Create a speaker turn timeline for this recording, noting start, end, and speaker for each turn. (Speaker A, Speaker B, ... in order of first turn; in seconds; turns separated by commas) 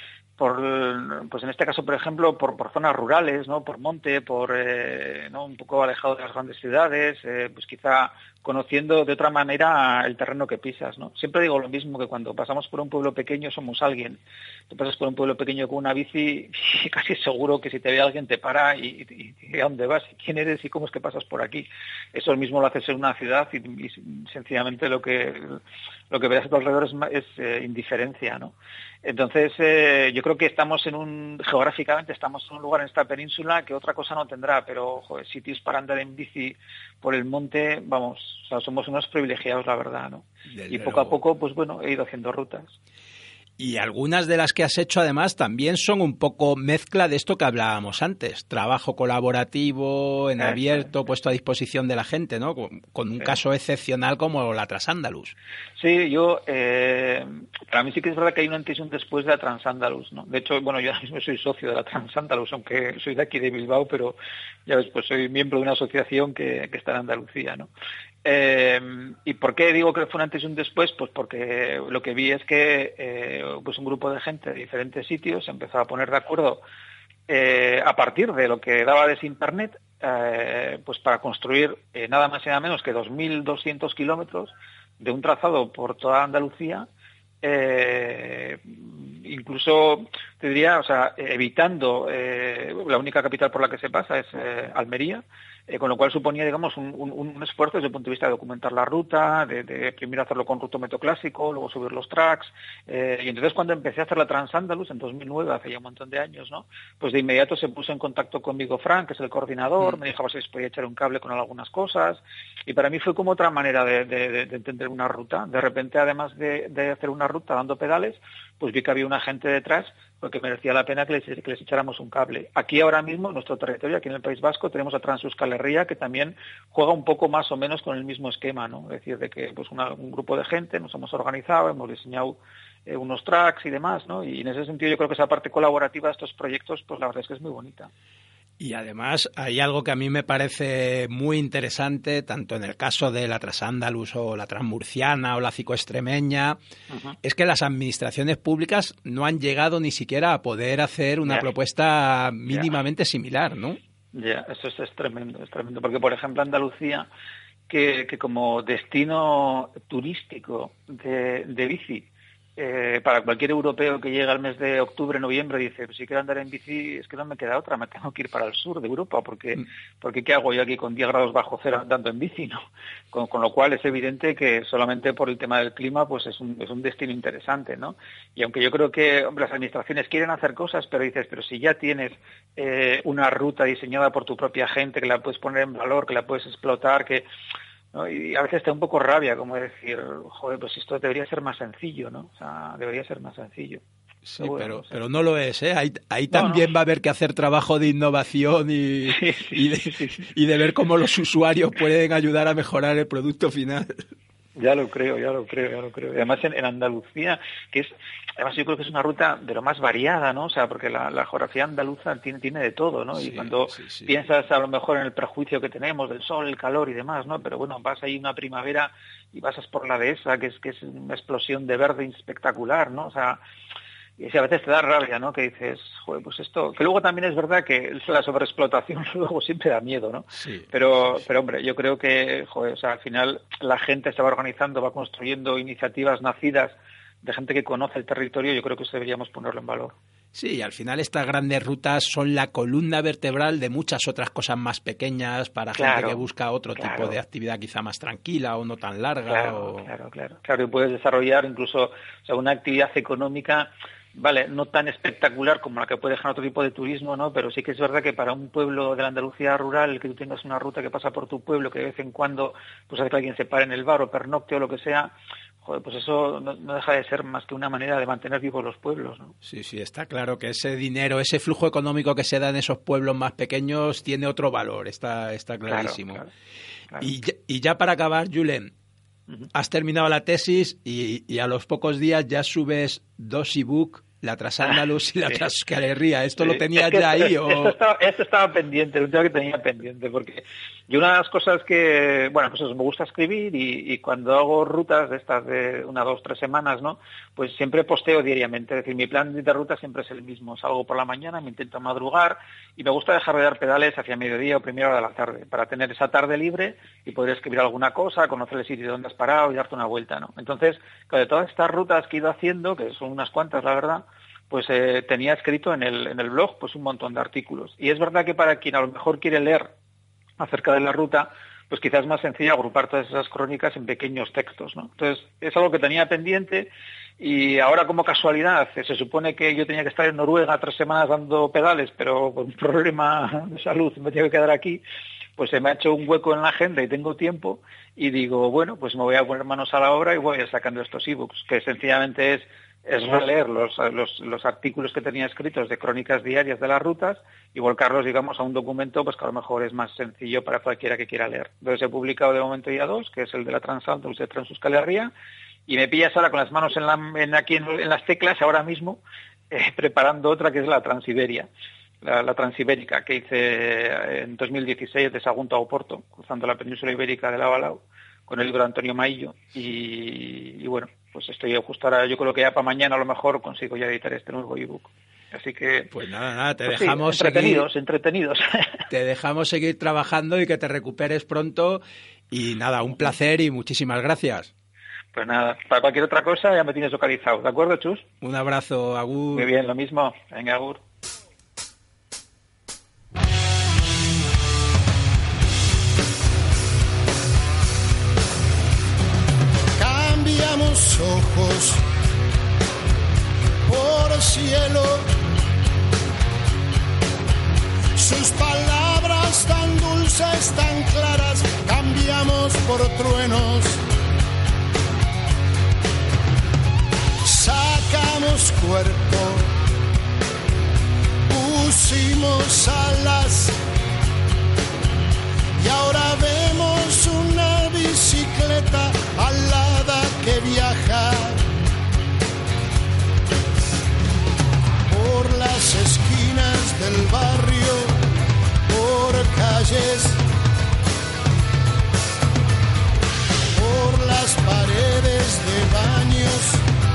Speaker A: 0.4-14.2, Speaker A: 14.7-25.6, Speaker A: 26.1-28.5, Speaker A: 29.0-42.7, Speaker B: 40.5-41.2, Speaker B: 43.6-55.4, Speaker A: 50.4-50.9, Speaker A: 55.8-67.7, Speaker A: 68.2-76.6, Speaker A: 77.3-86.9, Speaker A: 87.4-137.9, Speaker B: 138.6-146.6, Speaker A: 146.9-147.2, Speaker B: 147.2-153.8, Speaker A: 154.1-157.1, Speaker A: 157.7-162.1, Speaker A: 162.6-187.3, Speaker A: 187.9-193.8, Speaker B: 194.2-204.1, Speaker A: 194.4-194.9, Speaker A: 196.3-196.7, Speaker A: 199.1-200.3, Speaker A: 204.6-223.4, Speaker B: 213.2-214.2, Speaker A: 224.2-239.9, Speaker B: 230.3-230.7, Speaker B: 240.3-249.9, Speaker A: 245.8-246.2, Speaker A: 246.8-247.2, Speaker A: 249.3-265.1, Speaker A: 265.6-269.4, Speaker B: 269.4-276.2, Speaker A: 275.7-276.3, Speaker B: 277.0-278.7, Speaker B: 279.5-287.8, Speaker A: 284.6-285.4, Speaker A: 286.4-319.7, Speaker A: 320.4-334.8, Speaker A: 335.4-355.1, Speaker A: 355.7-361.5, Speaker A: 362.0-375.9, Speaker B: 375.9-377.7, Speaker A: 376.7-378.8, Speaker B: 378.9-384.5, Speaker A: 385.1-388.0, Speaker B: 388.2-389.5, Speaker A: 389.3-390.8, Speaker C: 399.8-401.8, Speaker C: 403.6-405.1, Speaker C: 408.0-413.8, Speaker C: 417.2-419.5, Speaker C: 421.3-423.6, Speaker C: 425.6-431.4, Speaker C: 434.9-438.0, Speaker C: 438.7-440.2, Speaker C: 443.6-446.6